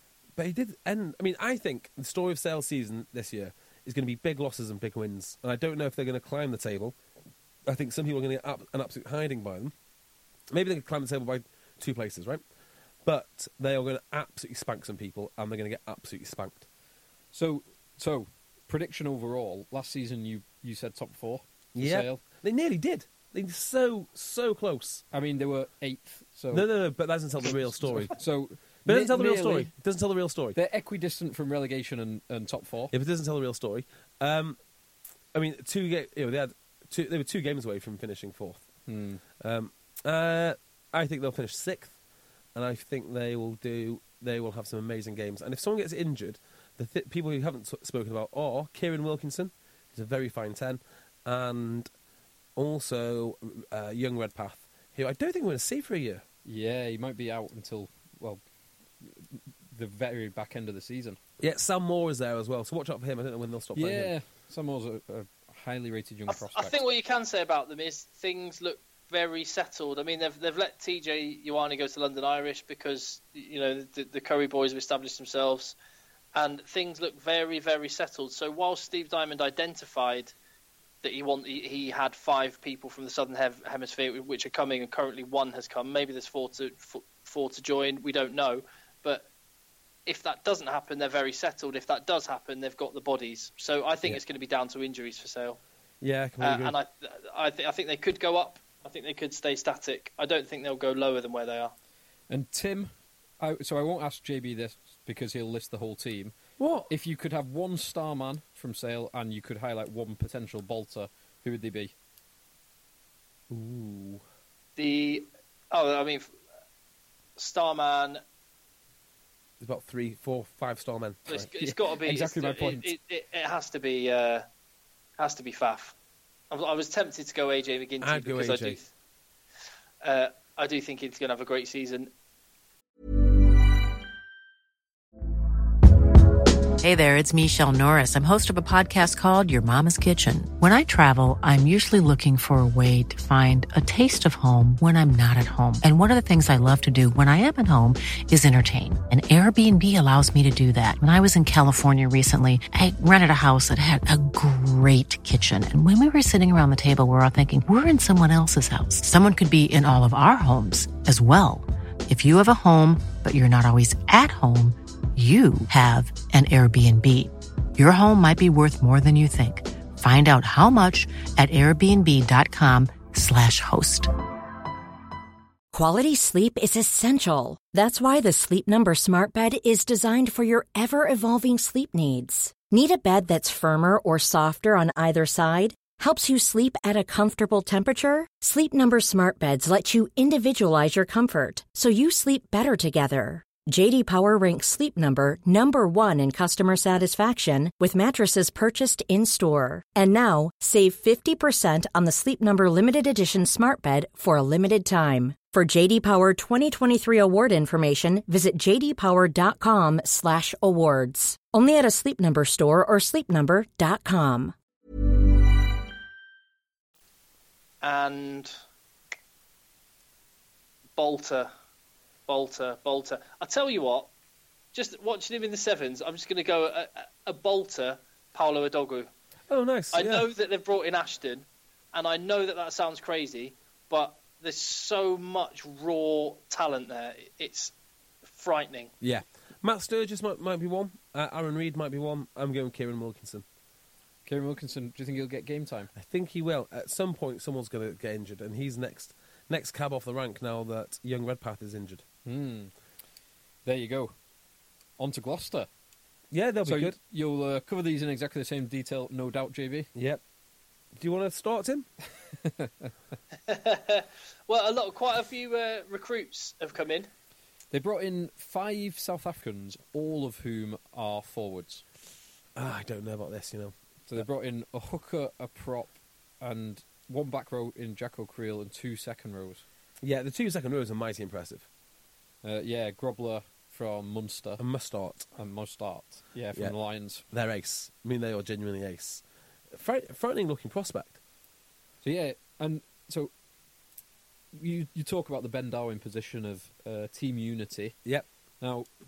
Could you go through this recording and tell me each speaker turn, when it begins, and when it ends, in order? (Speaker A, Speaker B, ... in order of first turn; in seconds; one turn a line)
Speaker A: 0.4-7.0
Speaker A: 7.7-9.7
Speaker A: 10.5-12.4
Speaker A: 13.1-16.7
Speaker B: 17.3-22.2
Speaker A: 21.8-25.0
Speaker B: 25.1-26.7
Speaker A: 26.5-28.2
Speaker B: 27.4-29.7
Speaker A: 28.9-30.6
Speaker B: 30.6-32.9
Speaker A: 32.9-34.6
Speaker A: 35.3-38.6
Speaker B: 38.9-39.2
Speaker A: 39.4-42.0
Speaker A: 42.5-51.9
Speaker A: 52.6-56.2
Speaker B: 56.5-58.4
Speaker B: 59.0-61.2
Speaker A: 61.4-64.1
Speaker B: 63.8-66.8
Speaker C: 66.3-75.8
Speaker C: 76.3-80.3
Speaker C: 81.0-89.3
Speaker C: 90.1-95.6
Speaker A: 96.0-96.8
Speaker C: 96.4-101.7
Speaker B: 102.3-106.3
Speaker A: 106.6-106.9
Speaker B: 106.9-111.9
Speaker A: 113.5-114.2
Speaker C: 114.8-116.3
Speaker C: 117.4-118.2
Speaker A: 119.6-121.5
Speaker C: 121.3-124.5
Speaker B: 121.6-122.9
Speaker C: 125.2-126.0
Speaker C: 126.5-128.9
Speaker A: 128.0-128.8
Speaker C: 130.0-132.1
Speaker D: 136.8-174.1
Speaker E: 175.7-214.5
Speaker C: 217.8-218.5
Speaker C: 221.0-221.5
Speaker C: 222.3-224.1
Speaker C: 224.7-229.1
Speaker A: 229.5-230.3
Speaker C: 229.9-237.7
Speaker C: 238.3-238.9
Speaker A: 239.0-243.4
Speaker B: 244.3-245.9
Speaker A: 245.9-252.0
Speaker B: 252.2-252.7
Speaker B: 253.7-254.1
Speaker B: 255.0-255.7
Speaker A: 256.3-257.0
Speaker B: 256.6-259.9
Speaker A: 259.9-260.2
Speaker A: 261.0-261.9
Speaker B: 262.3-262.9
Speaker C: 263.5-267.1
Speaker B: 267.7-271.8
Speaker A: 272.6-274.3
Speaker B: 274.1-279.6
Speaker A: 280.0-281.7
Speaker B: 282.4-284.6
Speaker A: 284.6-285.3
Speaker B: 285.4-287.2
Speaker A: 287.3-291.2
Speaker B: 292.0-293.3
Speaker B: 294.5-298.0
Speaker B: 298.6-298.9